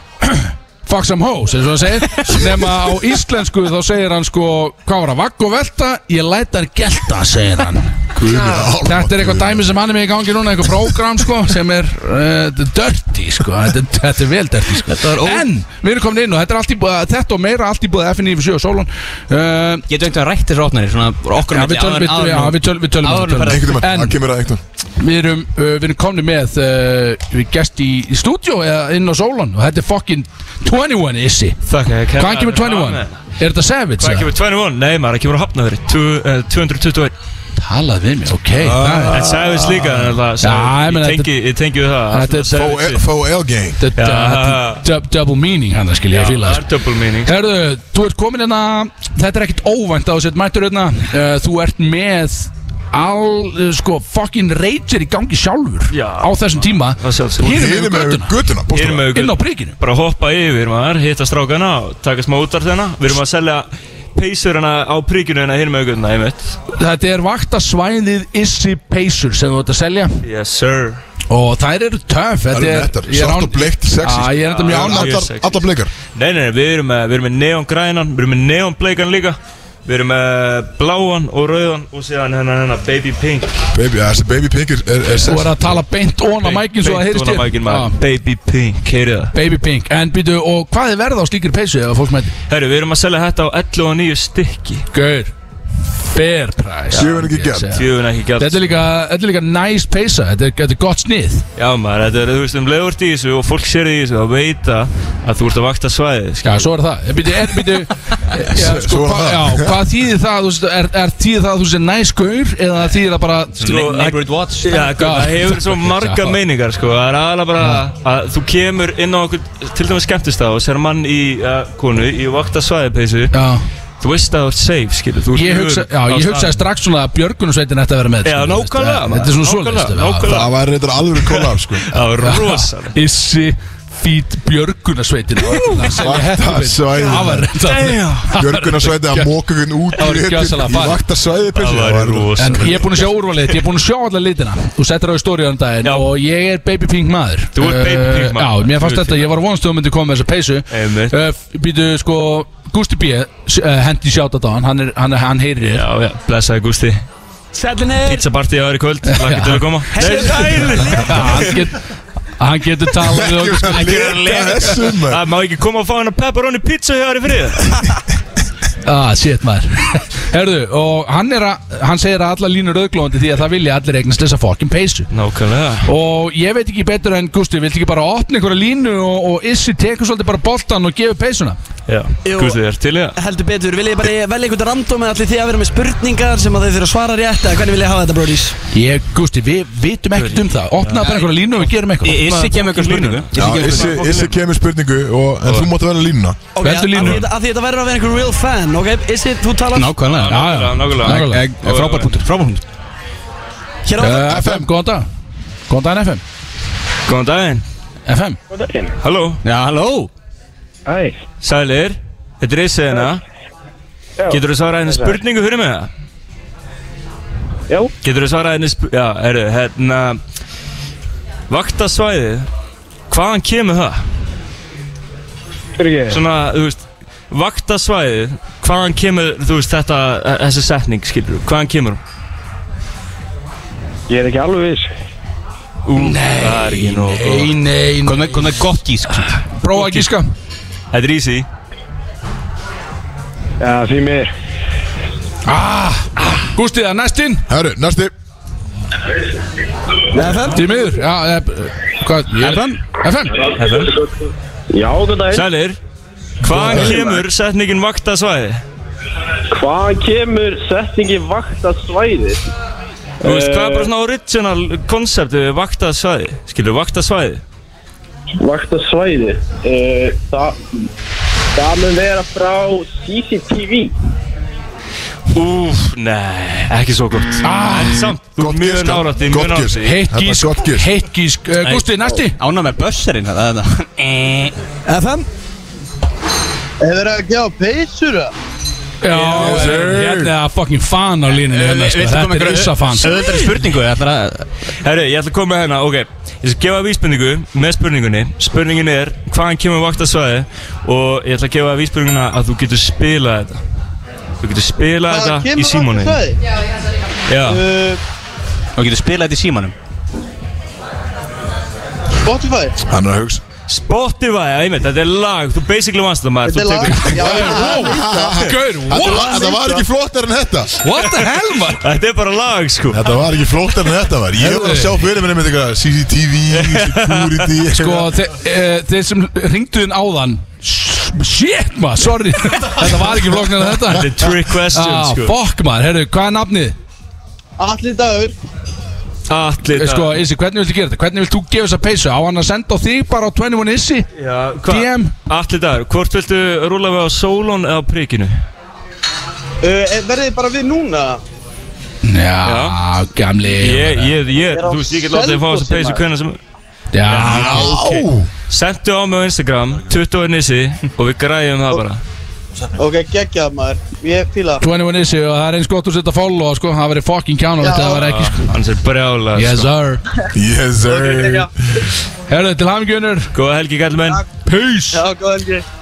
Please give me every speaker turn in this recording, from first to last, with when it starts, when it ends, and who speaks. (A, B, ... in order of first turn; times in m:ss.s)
0:00.2-0:08.0 A
0:08.2-0:09.7 B
0:08.8-0:19.8 A
0:14.9-0:15.5 C
0:19.9-0:23.8 C
0:21.5-0:24.2 A
0:23.5-0:24.6 B
0:25.0-0:31.6 A
0:31.7-0:33.2 D
0:32.2-0:34.3 A
0:34.0-0:37.2 D
0:37.6-0:39.3 A
0:38.9-0:43.0 D
0:40.4-0:41.3 A
0:42.1-0:42.6 A
0:42.5-0:43.8 B
0:43.8-0:46.6 A
0:44.0-0:44.8 D
0:46.1-0:47.3 D
0:47.2-0:58.3 A
0:55.9-0:57.6 D
0:57.4-0:59.1 B
0:58.7-1:06.6 D
0:59.1-0:59.8 A
1:06.7-1:10.2 A
1:10.2-1:11.0 D
1:11.3-1:15.2 A
1:12.5-1:15.9 B
1:14.5-1:23.6 D
1:23.7-1:25.8 B
1:25.2-1:28.0 A
1:26.4-1:29.3 D
1:29.3-1:32.3 A
1:32.5-1:34.9 D
1:34.9-1:35.3 A
1:36.0-1:41.5 A
1:37.0-1:37.8 B
1:37.7-1:38.8 D
1:41.6-1:46.7 D
1:46.4-1:54.2 A
1:48.4-1:49.8 B
1:53.6-2:03.4 D
1:53.6-1:54.9 C
1:54.8-1:56.4 A
1:57.6-1:57.8 A
2:03.3-2:03.6 A
2:04.0-2:06.6 D
2:05.3-2:10.4 A
2:08.2-2:10.6 D
2:10.2-2:12.0 B
2:11.2-2:13.0 D
2:12.2-2:19.3 A
2:15.4-2:16.0 D
2:15.9-2:17.6 B
2:17.6-2:18.3 D
2:18.3-2:23.1 B
2:19.9-2:21.0 A
2:21.5-2:23.0 D
2:22.4-2:35.9 A
2:25.8-2:26.1 D
2:27.6-2:29.3 D
2:30.7-2:31.2 D
2:35.7-2:37.0 D
2:37.5-2:38.3 E
2:38.0-2:41.7 D
2:39.0-2:41.8 A
2:39.9-2:41.0 E
2:42.4-2:44.2 A
2:43.0-2:45.2 B
2:43.6-2:44.8 C
2:44.5-2:47.9 D
2:48.8-2:55.1 A
2:55.1-2:55.9 D
2:55.8-3:01.6 A
3:01.9-3:03.2 D
3:02.2-3:02.6 E
3:03.2-3:08.6 E
3:08.7-3:12.2 A
3:10.1-3:14.4 D
3:12.0-3:14.1 C
3:13.3-3:16.4 B
3:16.5-3:19.9 E
3:16.6-3:17.3 A
3:16.9-3:17.3 D
3:19.7-3:22.6 C
3:20.1-3:22.1 D
3:20.2-3:22.2 A
3:23.8-3:24.6 E
3:24.0-3:25.1 A
3:25.7-3:26.2 A
3:27.1-3:27.6 D
3:28.1-3:28.4 A
3:28.5-3:28.9 F
3:29.0-3:29.4 D
3:29.4-3:30.1 C
3:30.9-3:31.2 F
3:31.4-3:33.2 D
3:34.2-3:35.2 F
3:34.3-3:35.9 D
3:38.0-3:40.2 D
3:41.5-3:42.5 D
3:43.1-3:44.0 D
3:45.8-3:46.2 F
3:46.1-3:52.0 D
3:54.1-3:54.9 F
3:55.8-3:57.6 D
3:55.9-3:58.6 A
3:58.0-3:59.3 C
3:59.5-4:00.3 A
4:00.9-4:01.5 D
4:03.6-4:04.3 F
4:05.5-4:07.4 A
4:07.5-4:08.1 B
4:10.2-4:10.5 F
4:10.2-4:10.7 E
4:10.5-4:13.4 A
4:12.4-4:12.8 C
4:13.4-4:14.1 F
4:13.6-4:13.9 D
4:14.7-4:15.5 F
4:15.3-4:15.8 D
4:16.4-4:18.6 D
4:16.4-4:17.0 B
4:16.6-4:17.2 F
4:19.5-4:22.4 F
4:23.2-4:23.9 F
4:23.2-4:27.4 D
4:28.4-4:30.6 F
4:31.6-4:33.9 F
4:35.3-4:40.0 D
4:37.4-4:38.1 A
4:38.4-4:40.9 B
4:39.8-4:42.4 A
4:41.7-4:44.5 C
4:44.9-4:45.3 E
4:46.8-4:48.3 G
4:49.0-4:53.1 A
4:49.1-4:49.8 D
4:49.3-4:50.3 B
4:51.3-4:54.5 C
4:54.8-5:03.6 D
5:04.4-5:06.2 D
5:05.1-5:06.4 G
5:07.3-5:07.6 D
5:07.5-5:08.0 G
5:08.8-5:09.7 C
5:12.2-5:12.8 G
5:12.8-5:13.4 B
5:13.7-5:17.7 D
5:16.4-5:18.5 G
5:16.9-5:19.8 A
5:17.6-5:20.7 B
5:20.8-5:21.9 A
5:21.0-5:21.3 D
5:21.8-5:23.0 D
5:22.9-5:28.1 B
5:24.4-5:25.0 A
5:26.5-5:27.5 D
5:27.7-5:36.8 A
5:33.8-5:35.4 D
5:37.6-5:38.4 G
5:39.3-5:40.2 D
5:39.8-5:44.1 A
5:44.2-5:48.4 D
5:44.6-5:45.1 A
5:49.6-5:51.2 G
5:52.0-5:54.2 A
5:52.4-5:52.8 D
5:53.5-5:56.4 D
5:54.5-5:56.0 G
5:56.9-5:57.9 A
5:57.1-5:58.3 B
5:57.1-6:02.0 D
6:02.8-6:04.6 G
6:04.6-6:08.5 A
6:07.6-6:08.0 G
6:07.8-6:09.7 D
6:09.4-6:10.0 A
6:10.3-6:11.5 B
6:10.9-6:11.5 G
6:12.3-6:13.3 A
6:13.3-6:14.2 D
6:14.5-6:15.0 A
6:14.9-6:15.6 G